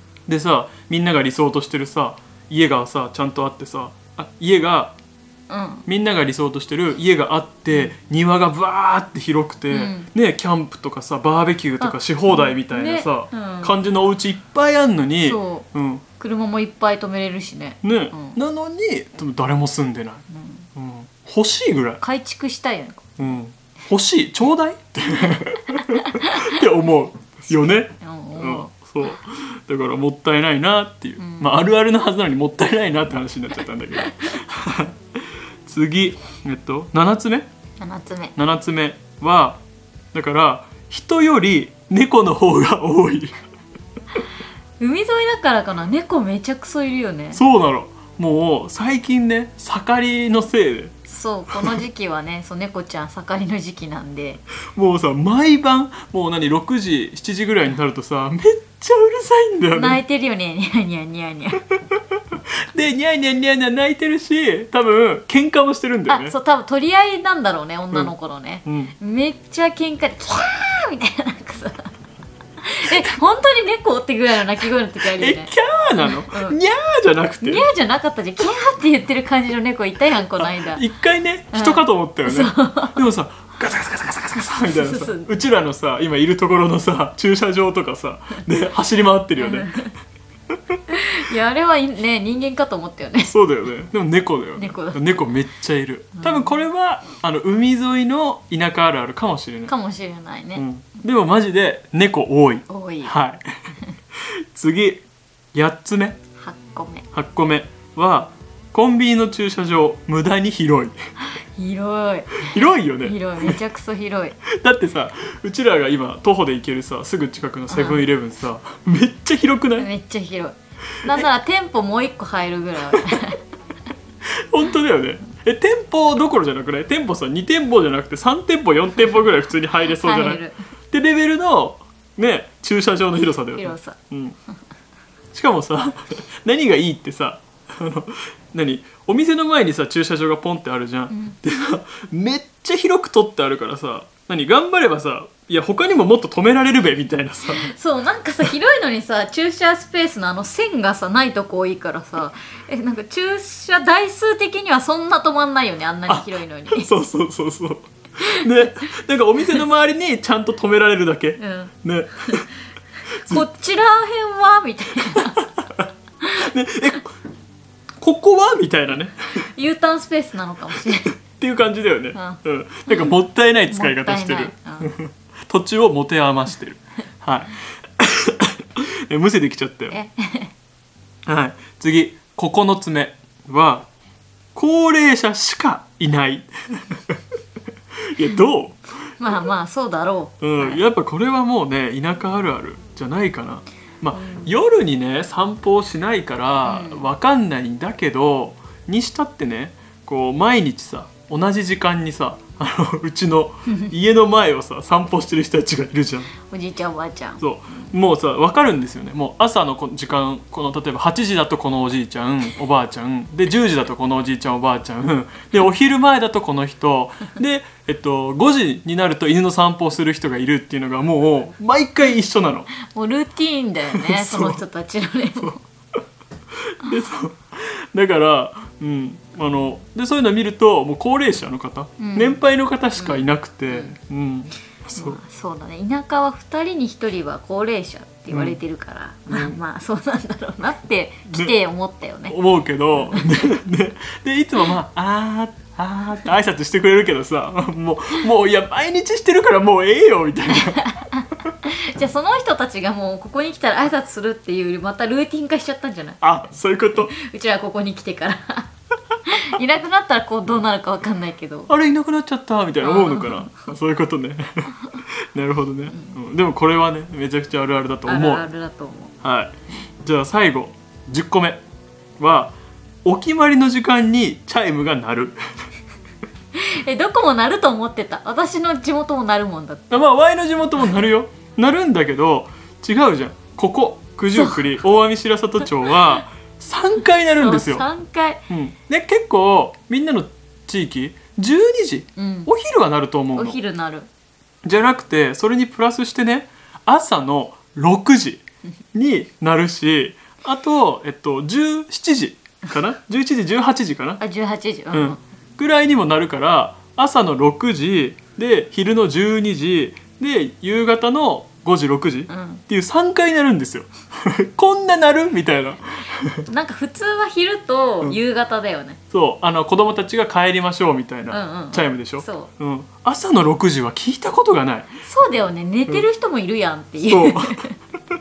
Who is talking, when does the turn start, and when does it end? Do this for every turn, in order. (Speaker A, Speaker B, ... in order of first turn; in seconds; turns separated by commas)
Speaker A: 0.3-5.0, Speaker B: 5.5-5.8, Speaker A: 5.9-16.0, Speaker B: 9.7-10.1, Speaker B: 11.8-13.7, Speaker B: 15.2-15.7, Speaker B: 16.2-18.4, Speaker A: 17.8-20.2, Speaker B: 20.3-20.7, Speaker A: 20.8-22.0, Speaker B: 22.0-23.1, Speaker A: 23.2-35.0, Speaker B: 26.1-26.5, Speaker B: 27.5-28.7, Speaker B: 31.2-31.7, Speaker B: 34.0-34.3, Speaker A: 35.6-37.5, Speaker B: 37.8-38.3, Speaker A: 38.4-43.4, Speaker B: 44.8-47.4, Speaker A: 47.3-50.9, Speaker B: 51.1-54.4, Speaker A: 51.5-51.8, Speaker A: 54.7-60.0, Speaker B: 59.7-61.6, Speaker A: 61.7-66.3, Speaker B: 66.1-71.9, Speaker A: 68.6-68.9, Speaker B: 72.6-76.6, Speaker A: 75.0-77.7, Speaker B: 77.4-80.8, Speaker A: 80.3-89.7, Speaker B: 81.5-83.0, Speaker B: 84.5-85.3, Speaker B: 89.4-89.9, Speaker A: 90.5-90.8, Speaker B: 90.9-93.3, Speaker A: 93.3-99.7, Speaker B: 94.6-95.1, Speaker B: 96.2-96.5, Speaker B: 99.7-100.7, Speaker A: 100.5-103.4, Speaker B: 102.7-103.1, Speaker A: 104.2-106.2, Speaker B: 106.4-107.0, Speaker A: 107.1-111.0, Speaker B: 111.3-114.4, Speaker A: 112.5-113.6, Speaker A: 114.5-119.9, Speaker B: 117.7-118.0, Speaker B: 119.8-123.4, Speaker A: 124.2-134.3, Speaker B: 129.8-130.6, Speaker B: 133.5-134.0, Speaker A: 135.3-147.7, Speaker B: 141.1-141.4, Speaker B: 147.5-156.9, Speaker A: 156.1-162.5, Speaker B: 158.2-158.7, Speaker B: 161.4-161.7, Speaker B: 163.1-165.4, Speaker A: 163.2-163.4, Speaker A: 165.0-167.1, Speaker A: 168.0-169.5, Speaker B: 169.5-171.2, Speaker A: 171.2-180.0, Speaker B: 172.1-173.1, Speaker B: 173.7-174.9, Speaker B: 179.9-180.5, Speaker A: 181.2-183.9, Speaker A: 184.5-187.2, Speaker A: 188.1-188.8, Speaker B: 189.2-190.8, Speaker A: 190.4-206.3, Speaker B: 194.1-194.5, Speaker B: 196.6-197.1, Speaker B: 206.4-207.9, Speaker A: 207.4-222.7, Speaker B: 222.8-225.6, Speaker A: 223.9-224.6, Speaker A: 226.7-235.2, Speaker B: 232.0-232.4, Speaker B: 233.0-234.0, Speaker B: 234.9-242.3, Speaker A: 238.3-238.6, Speaker A: 239.3-239.6, Speaker A: 241.3-241.6, Speaker A: 242.3-250.9, Speaker B: 242.9-243.3, Speaker B: 250.5-256.2, Speaker A: 256.2-257.1, Speaker B: 257.1-258.7, Speaker B: 259.3-261.7, Speaker A: 261.7-268.4, Speaker B: 262.8-263.7, Speaker B: 265.9-266.1, Speaker B: 268.1-269.1, Speaker A: 269.2-271.6, Speaker A: 272.2-275.4, Speaker B: 276.6-279.9, Speaker A: 279.9-287.9, Speaker B: 284.3-284.7, Speaker B: 287.4-288.4, Speaker A: 288.5-293.6, Speaker B: 292.2-292.5, Speaker B: 293.3-294.1, Speaker A: 294.6-304.2, Speaker B: 304.2-305.2, Speaker A: 304.9-316.4, Speaker B: 312.3-312.6, Speaker B: 316.5-319.0, Speaker A: 319.1-324.9, Speaker B: 321.3-322.5, Speaker B: 325.0-327.7, Speaker A: 327.0-327.6